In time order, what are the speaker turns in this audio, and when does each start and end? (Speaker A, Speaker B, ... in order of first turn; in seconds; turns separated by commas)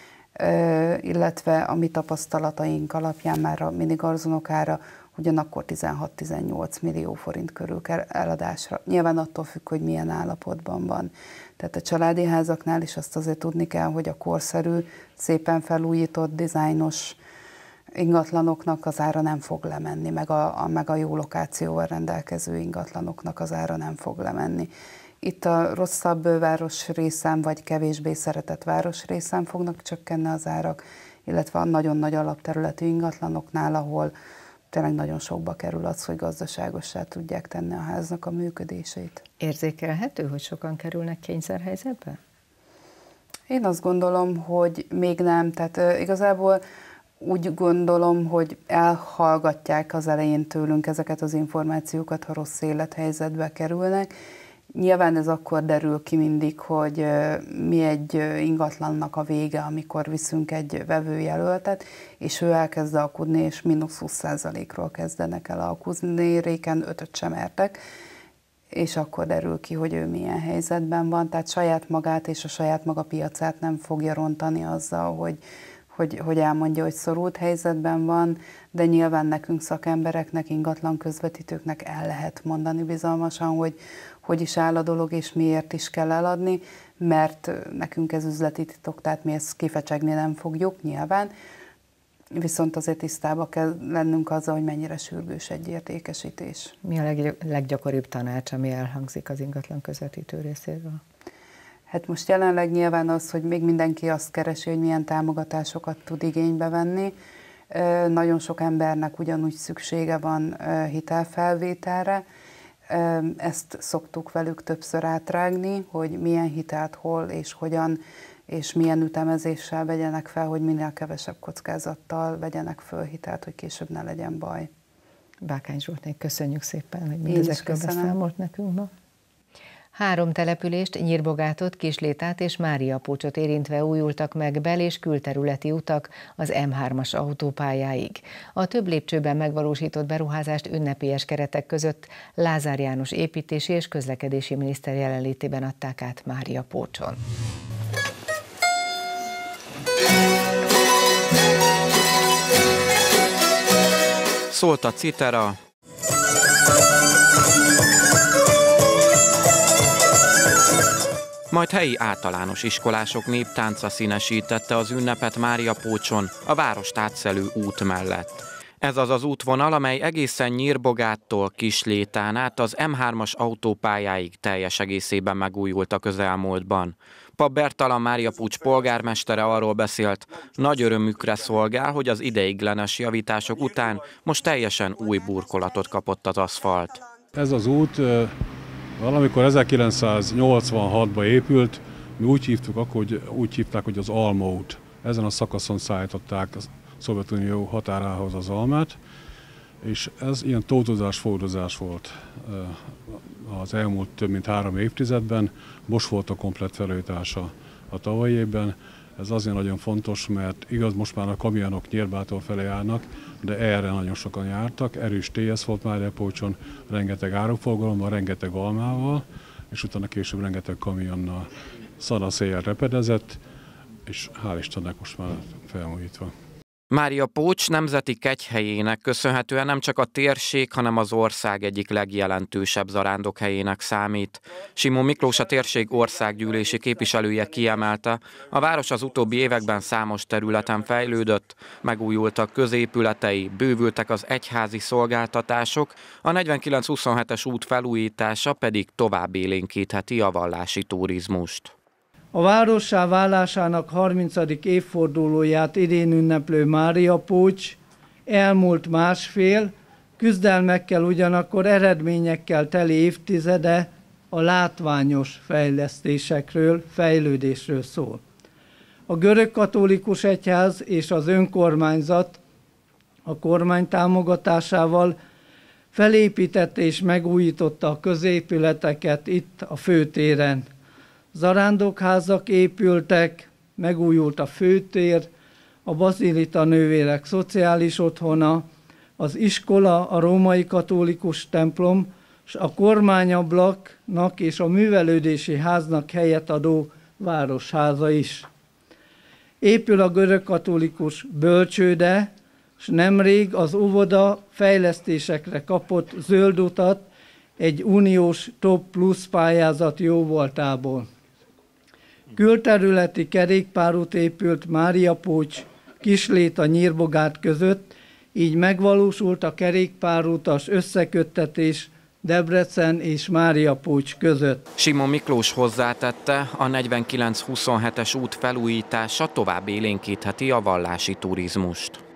Speaker A: 0.3-17.2, Speaker A: 17.9-24.7, Speaker A: 25.2-34.1, Speaker A: 34.7-39.2, Speaker B: 39.4-42.2, Speaker A: 43.5-46.6, Speaker A: 47.2-54.1, Speaker A: 54.7-67.8, Speaker A: 68.7-75.4, Speaker A: 75.9-91.3, Speaker A: 92.3-96.7, Speaker B: 96.8-101.0, Speaker A: 101.9-107.1, Speaker A: 107.7-112.2, Speaker A: 112.9-124.7, Speaker B: 125.4-128.9, Speaker A: 127.3-128.1, Speaker B: 129.9-147.2, Speaker C: 154.5-155.6, Speaker C: 161.5-187.0, Speaker D: 187.3-188.4, Speaker D: 189.0-199.0, Speaker D: 199.8-223.4, Speaker D: 224.1-226.3, Speaker C: 226.9-251.7, Speaker E: 252.3-268.2, Speaker E: 269.1-272.4, Speaker E: 273.2-275.1, Speaker E: 275.9-280.7, Speaker E: 281.3-285.3, Speaker E: 285.8-288.6, Speaker E: 289.2-298.5, Speaker E: 299.6-307.0, Speaker E: 307.6-311.1, Speaker E: 312.3-324.6, Speaker C: 324.8-332.0